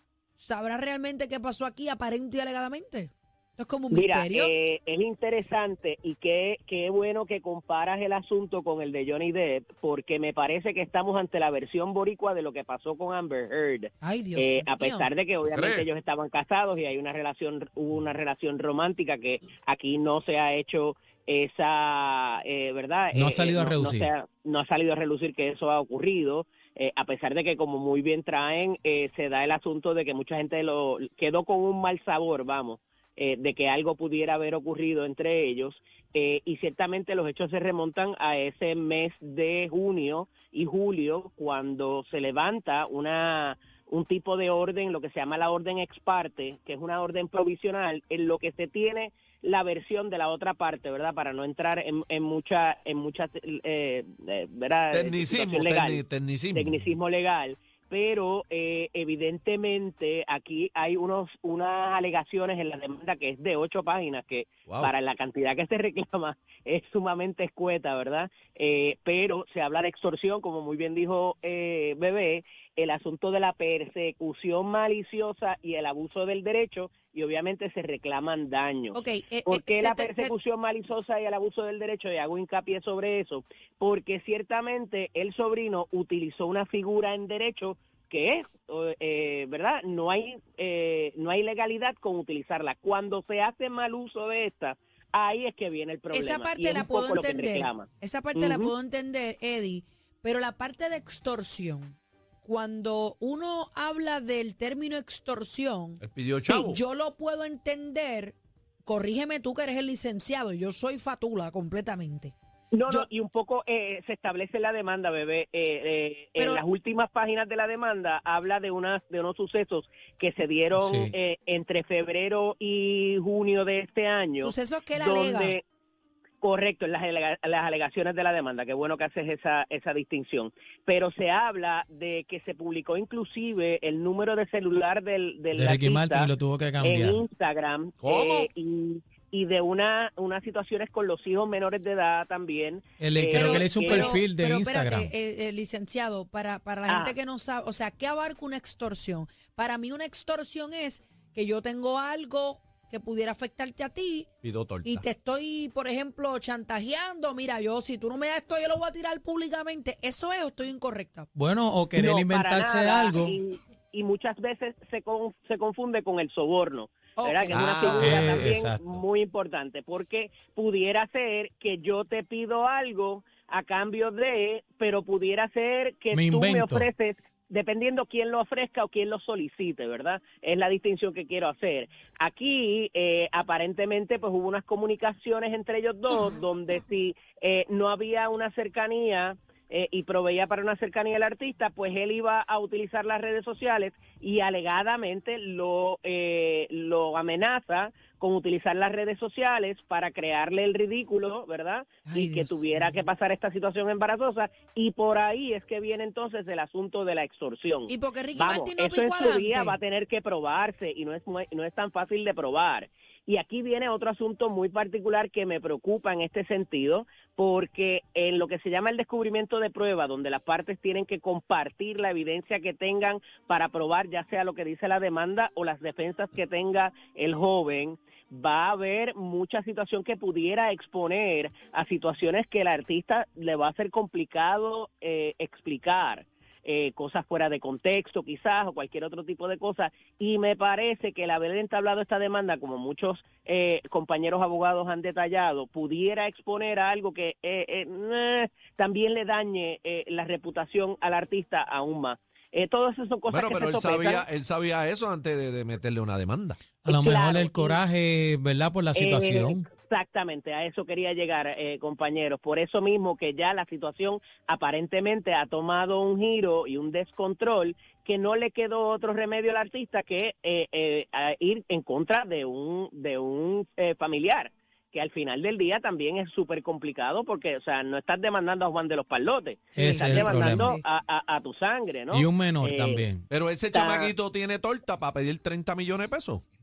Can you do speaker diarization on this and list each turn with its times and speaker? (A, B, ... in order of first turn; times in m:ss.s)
0:00.4-0:04.5 A
0:03.9-0:56.0 B
0:14.0-0:15.1 A
0:15.5-0:15.9 C
0:23.1-0:24.1 D
0:54.9-0:56.9 C
0:56.5-1:38.7 B
1:18.9-1:20.3 A
1:36.1-1:52.3 A
1:46.0-1:46.8 C
1:52.7-2:05.6 B
1:56.4-1:56.6 A
2:00.8-2:01.1 D
2:04.4-2:05.6 A
2:06.4-2:16.3 B
2:15.5-2:17.2 D
2:16.8-2:24.2 B
2:18.0-2:18.5 C
2:23.0-2:25.1 D
2:23.3-2:34.3 A
2:26.9-2:27.2 B
2:34.4-2:35.0 C
2:34.8-2:41.3 A
2:41.4-2:43.4 D
2:42.0-4:14.3 B
2:47.2-2:48.2 A
2:47.5-2:48.3 C
2:48.0-2:49.0 D
2:56.1-2:56.9 D
3:22.1-3:23.0 A
3:27.9-3:29.8 A
4:13.3-4:16.6 C
4:16.8-4:19.7 D
4:16.9-4:17.8 B
4:19.0-4:43.0 B
4:39.7-4:40.8 A
4:39.8-4:40.8 D
4:42.1-4:43.3 D
4:43.3-4:46.4 C
4:43.7-4:44.1 B